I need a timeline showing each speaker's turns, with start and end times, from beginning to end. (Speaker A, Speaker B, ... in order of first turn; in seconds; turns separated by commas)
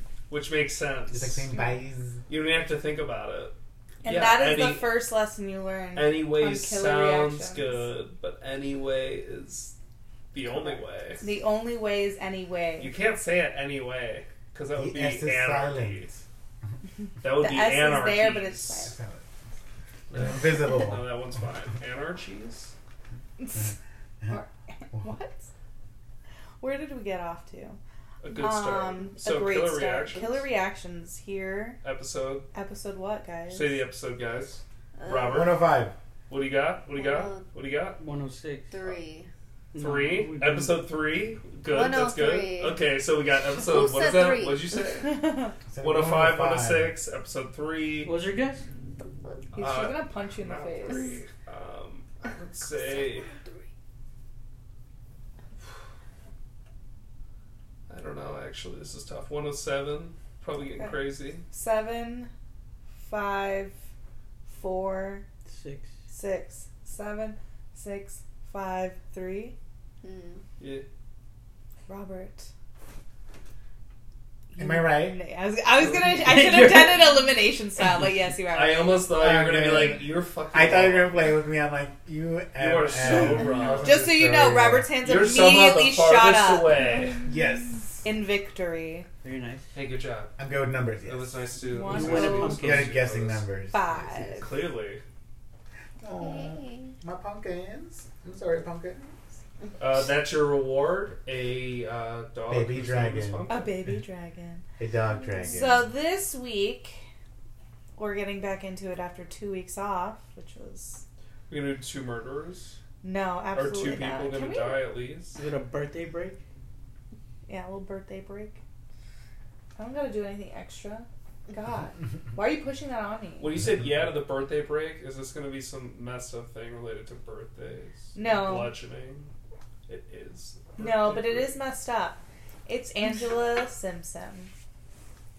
Speaker A: 0.3-1.5, Speaker B: 1.1-2.2, Speaker A: 2.3-5.0, Speaker C: 4.0-7.9, Speaker A: 5.9-9.8, Speaker A: 10.3-11.3, Speaker C: 11.2-13.0, Speaker A: 12.8-16.1, Speaker B: 14.7-16.2, Speaker A: 17.2-18.9, Speaker C: 17.3-19.0, Speaker B: 18.8-19.3, Speaker A: 20.1-22.7, Speaker B: 20.1-21.2, Speaker C: 23.4-23.8, Speaker C: 24.3-25.5, Speaker C: 26.6-27.8, Speaker A: 28.2-30.5, Speaker C: 28.4-31.8, Speaker A: 31.8-32.5, Speaker C: 32.5-33.8, Speaker A: 33.5-35.6, Speaker D: 35.0-35.6, Speaker B: 35.3-36.0, Speaker A: 36.3-38.0, Speaker D: 36.9-37.5, Speaker E: 38.0-38.8, Speaker D: 38.7-39.3, Speaker E: 39.7-40.9, Speaker A: 39.8-45.2, Speaker D: 41.7-42.8, Speaker D: 43.4-44.8, Speaker C: 45.1-45.5, Speaker B: 45.7-47.0, Speaker A: 45.8-48.1, Speaker E: 48.0-48.7, Speaker D: 49.0-49.4, Speaker A: 49.5-53.3, Speaker C: 49.5-51.2, Speaker A: 57.9-61.5, Speaker C: 60.8-62.3, Speaker C: 63.0-63.8, Speaker C: 64.5-65.2, Speaker E: 65.5-65.9, Speaker C: 66.1-69.5, Speaker D: 70.0-70.4, Speaker A: 70.6-70.8, Speaker C: 71.9-72.5, Speaker C: 74.5-79.1, Speaker B: 74.6-75.2, Speaker E: 76.0-77.3, Speaker A: 78.5-81.3, Speaker B: 79.1-85.0, Speaker A: 82.5-84.0, Speaker C: 83.8-86.8, Speaker A: 85.0-87.2, Speaker B: 87.2-88.0, Speaker C: 88.0-89.1, Speaker E: 89.2-89.7, Speaker A: 89.7-93.5, Speaker B: 90.4-94.4, Speaker C: 91.7-92.6, Speaker E: 91.9-92.9, Speaker C: 93.7-94.6, Speaker A: 94.4-95.0, Speaker B: 96.0-99.1, Speaker D: 96.2-96.9, Speaker A: 99.8-103.8, Speaker B: 102.5-103.5, Speaker C: 103.5-104.6, Speaker B: 104.8-105.9, Speaker D: 105.2-105.5, Speaker C: 105.4-107.0, Speaker C: 108.0-111.0, Speaker A: 111.5-112.8, Speaker C: 113.0-114.9, Speaker A: 113.5-115.4, Speaker E: 115.3-116.4, Speaker C: 117.5-118.6, Speaker C: 119.8-123.5, Speaker A: 123.4-129.3, Speaker C: 128.2-128.8, Speaker A: 129.9-131.6, Speaker C: 130.8-134.5